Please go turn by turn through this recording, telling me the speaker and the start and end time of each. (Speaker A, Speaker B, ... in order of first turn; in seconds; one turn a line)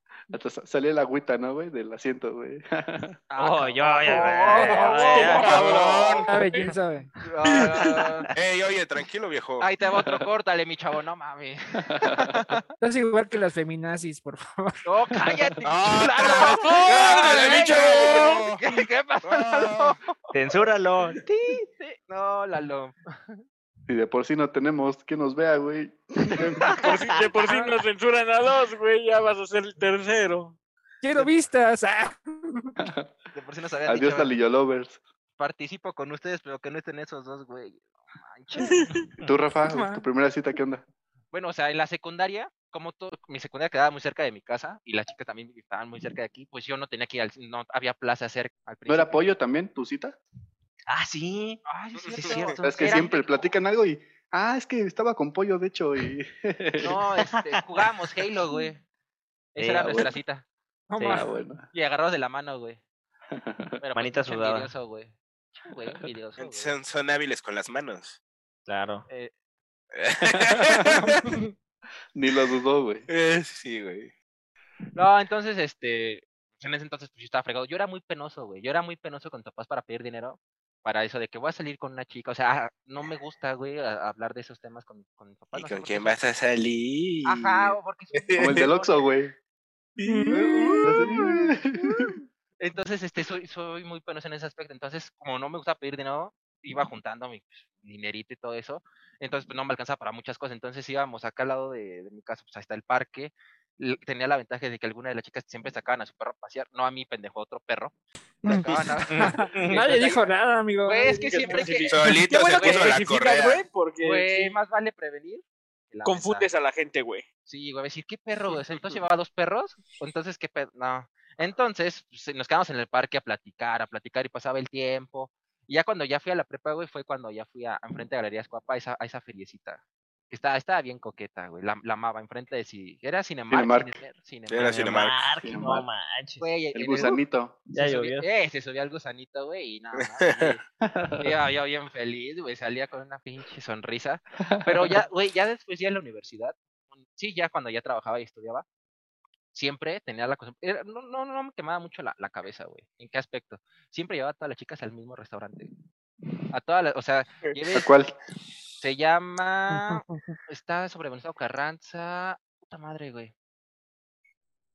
Speaker A: 0.3-3.2
Speaker B: 3.3-6.3
Speaker C: 3.4-5.6
Speaker D: 5.1-6.7
Speaker E: 5.3-6.3
Speaker F: 6.3-7.1
Speaker B: 7.2-8.3
Speaker E: 8.3-9.7
Speaker B: 9.6-12.6
Speaker A: 11.9-12.4
Speaker F: 12.8-14.8
Speaker B: 14.9-20.2
Speaker E: 15.6-20.0
Speaker D: 16.2-18.3
Speaker C: 20.3-21.7
Speaker B: 21.8-23.4
Speaker A: 23.9-26.7
Speaker B: 26.6-26.9
Speaker D: 26.8-30.6
Speaker F: 31.0-32.7
Speaker A: 32.8-33.1
Speaker B: 33.4-34.4
Speaker A: 33.9-35.0
Speaker B: 35.4-38.9
Speaker D: 38.6-39.0
Speaker A: 39.2-40.8
Speaker F: 39.7-40.0
Speaker B: 41.3-49.2
Speaker A: 48.9-50.2
Speaker C: 50.9-51.6
Speaker B: 51.7-53.4
Speaker E: 52.1-52.4
Speaker C: 52.2-53.0
Speaker A: 52.6-57.0
Speaker B: 56.8-58.8
Speaker C: 57.2-57.5
Speaker B: 59.5-60.5
Speaker C: 59.6-60.1
Speaker A: 59.8-60.1
Speaker F: 60.9-61.3
Speaker A: 61.1-61.6
Speaker B: 61.7-62.8
Speaker A: 63.3-63.7
Speaker B: 63.8-66.7
Speaker C: 64.0-64.7
Speaker E: 66.4-68.2
Speaker C: 68.7-69.1
Speaker E: 69.9-71.3
Speaker A: 70.3-71.2
Speaker A: 72.2-73.1
Speaker E: 73.1-74.1
Speaker B: 75.0-86.2
Speaker E: 85.5-88.7
Speaker B: 87.2-88.9
Speaker A: 88.4-89.3
Speaker E: 90.0-91.2
Speaker F: 90.0-91.5
Speaker A: 90.8-92.1
Speaker B: 92.6-110.3
Speaker F: 108.5-111.9
Speaker C: 109.1-109.9
Speaker B: 110.8-112.0
Speaker D: 111.3-114.5
Speaker E: 111.9-113.6
Speaker B: 112.5-113.0
Speaker B: 114.0-116.5
Speaker D: 116.0-117.2
Speaker B: 117.5-134.8
Speaker A: 133.5-134.0
Speaker E: 134.5-135.2
Speaker C: 134.6-136.5
Speaker A: 135.4-135.8
Speaker B: 136.4-137.2
Speaker A: 136.8-137.7
Speaker C: 137.7-138.3
Speaker B: 137.8-140.6
Speaker E: 139.9-140.6
Speaker A: 140.8-141.3
Speaker B: 141.2-148.7
Speaker A: 144.4-144.9
Speaker B: 149.5-155.7
Speaker B: 156.5-157.9
Speaker A: 157.7-158.2
Speaker B: 158.8-163.3
Speaker F: 159.7-160.3